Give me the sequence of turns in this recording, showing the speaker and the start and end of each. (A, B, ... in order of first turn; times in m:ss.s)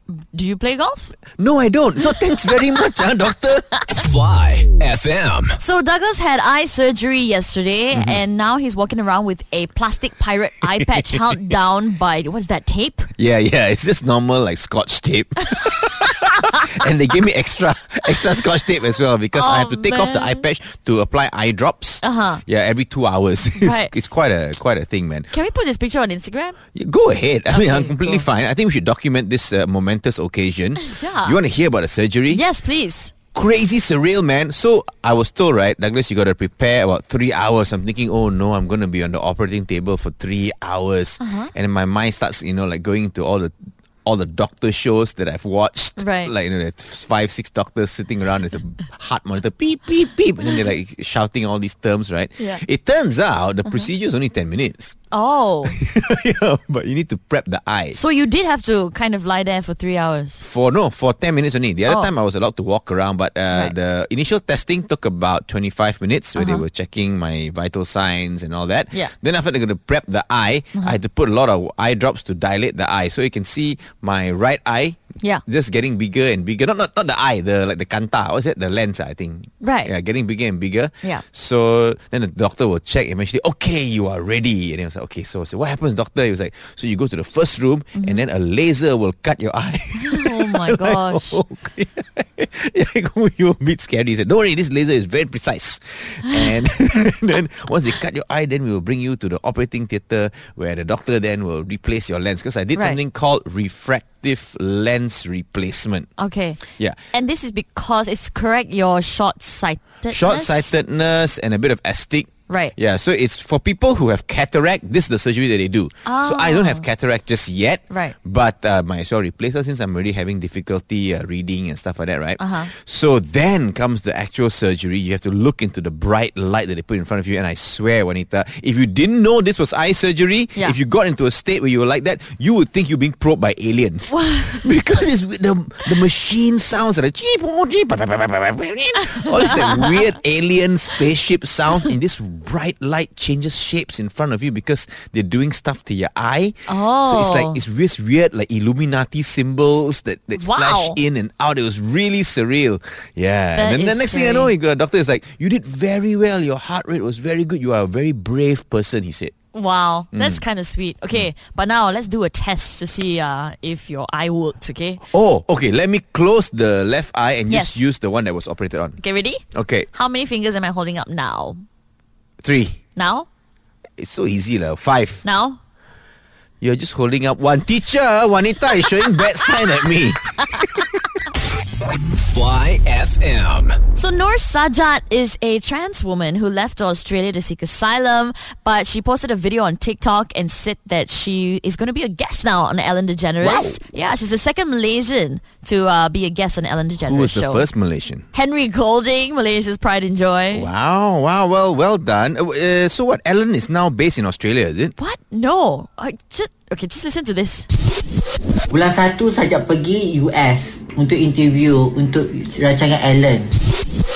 0:00.2-0:01.1 A
0:01.4-0:03.7 B
0:04.0-0:05.6 C
0:05.6-0:13.1 A
0:07.9-0:08.2 B
0:13.2-0:25.3 B
0:15.6-0:16.0 A
0:19.3-0:20.4 A
0:22.0-0:22.4 A
0:23.6-0:23.9 A
0:25.3-0:26.6 A
0:26.7-0:32.4 B
0:27.5-0:28.3 A
0:30.8-0:31.4 A
0:32.3-0:33.1 A
0:33.3-0:43.5 B
0:41.2-0:41.5 A
0:44.0-0:55.0 B
0:46.0-0:46.3 A
0:52.4-0:52.6 A
0:55.1-0:55.8 A
0:55.7-0:58.0 B
0:57.9-1:00.4 A
1:00.4-1:46.1 B
1:06.4-1:06.6 A
1:19.6-1:19.9 A
1:28.0-1:28.2 A
1:30.0-1:31.4 A
1:46.2-1:46.6 A
1:47.1-1:50.7 A
1:50.1-2:39.3 B
1:52.5-1:52.7 A
1:56.0-1:56.8 A
1:57.9-1:58.2 A
2:02.4-2:02.7 A
2:14.1-2:14.7 A
2:19.3-2:20.0 A
2:26.7-2:27.6 A
2:30.4-2:31.0 A
2:33.6-2:34.5 A
2:39.5-2:45.0 A
2:40.1-2:40.4 B
2:45.1-2:49.0 B
2:47.5-2:47.8 A
2:49.0-2:49.4 A
2:49.5-2:49.9 B
2:49.9-2:51.6 A
2:52.4-2:52.8 B
2:53.0-2:53.3 A
2:54.0-2:55.2 B
2:55.2-2:55.6 A
2:56.6-3:01.0 B
3:02.2-3:03.8 C
3:04.0-3:17.6 A
3:13.4-3:13.8 B
3:17.0-3:18.2 B
3:18.3-3:20.7 A
3:20.5-3:25.0 B
3:25.0-3:27.7 A
3:28.7-3:33.5 D